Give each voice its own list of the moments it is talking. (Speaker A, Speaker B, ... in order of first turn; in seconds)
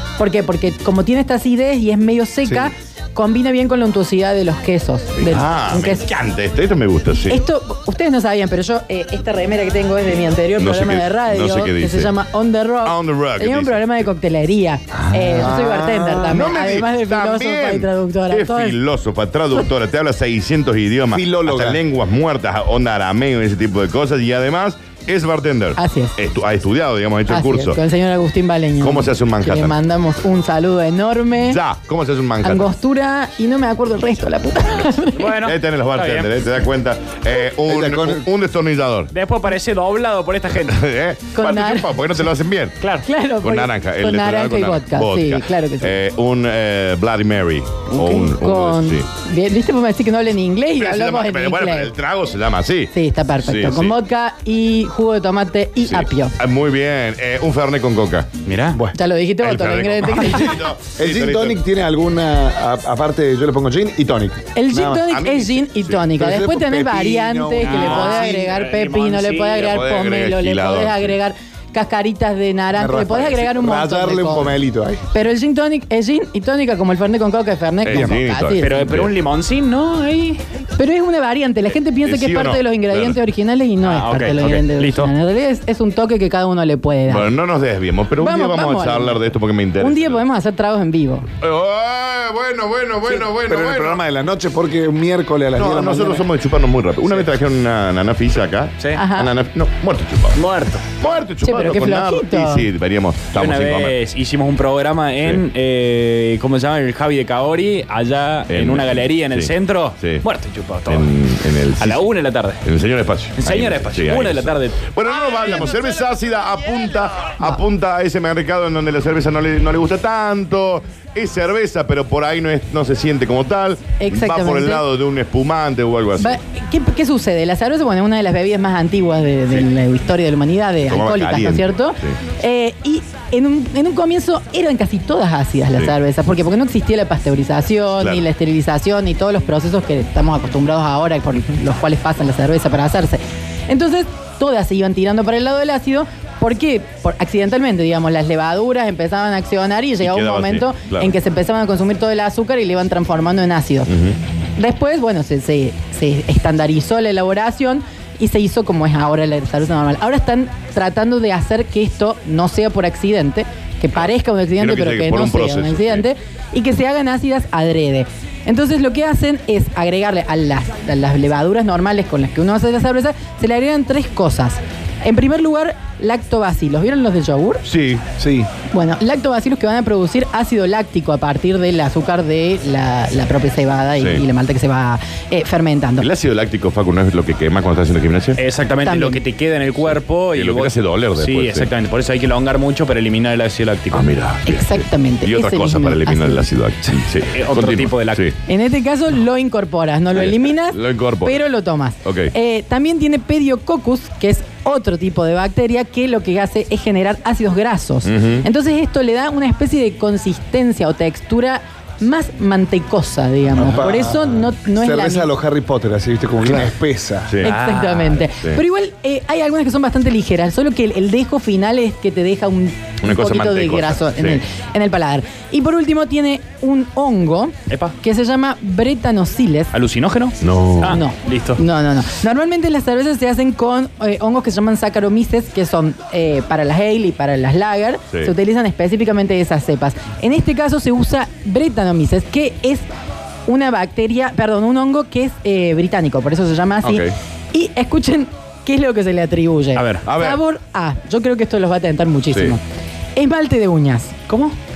Speaker A: 0.2-6.1, 7.3-18.8, 25.8-26.1, 27.3-31.6, 32.4-35.4, 41.3-41.9, 43.0-46.0, 47.9-51.9, 52.9-56.3, 58.9-60.7, 64.6-74.6, 75.1-79.0, 80.8-87.3, 88.2-91.3, 99.0-99.3, 101.4-102.7, 124.0-124.9, 126.2-153.9, 154.6-177.7, 178.7-186.1, 188.8-189.2, 194.5-196.5, 198.4-215.3, 217.4-229.7, 230.8-242.9, 243.5-252.6, 253.2-254.2
Speaker B: 2.5-2.7, 15.3-16.5, 21.1-21.8, 37.7-38.2, 61.0-65.0, 66.2-68.5, 72.7-75.0, 77.9-78.2, 93.1-96.3, 178.2-178.5, 213.6-217.3
Speaker C: 5.2-7.4, 10.6-12.1, 12.8-14.1, 16.3-27.8, 28.8-29.8, 31.5-32.8, 35.4-39.1, 40.6-42.8, 43.4-49.1, 50.8-54.0, 55.8-58.3, 59.4-61.6, 65.0-66.0, 69.6-71.2, 77.8-79.1, 82.0-83.2, 87.1-90.2, 91.4-94.0, 95.6-100.4, 100.9-104.0, 108.5-110.2, 110.9-112.1, 112.6-126.4, 130.8-132.2, 138.0-138.2, 150.0-151.1, 153.9-154.2, 164.0-166.1, 177.7-178.0, 184.0-184.2, 186.0-188.4, 189.9-191.7, 193.9-198.4, 200.1-201.4, 202.0-202.3, 208.1-208.5, 217.3-217.5, 223.0-224.4, 230.4-231.0, 246.8-247.2, 250.1-250.4
Speaker D: 35.2-36.3, 39.1-40.8, 42.8-43.1, 58.5-58.8, 67.6-69.8, 78.6-80.4, 83.8-85.1, 100.3-100.9, 103.3-111.1, 111.7-112.6, 113.4-114.8, 188.4-194.1, 197.3-198.2, 217.4-218.2, 227.7-228.0, 229.7-231.6, 249.8-250.1, 254.3-254.6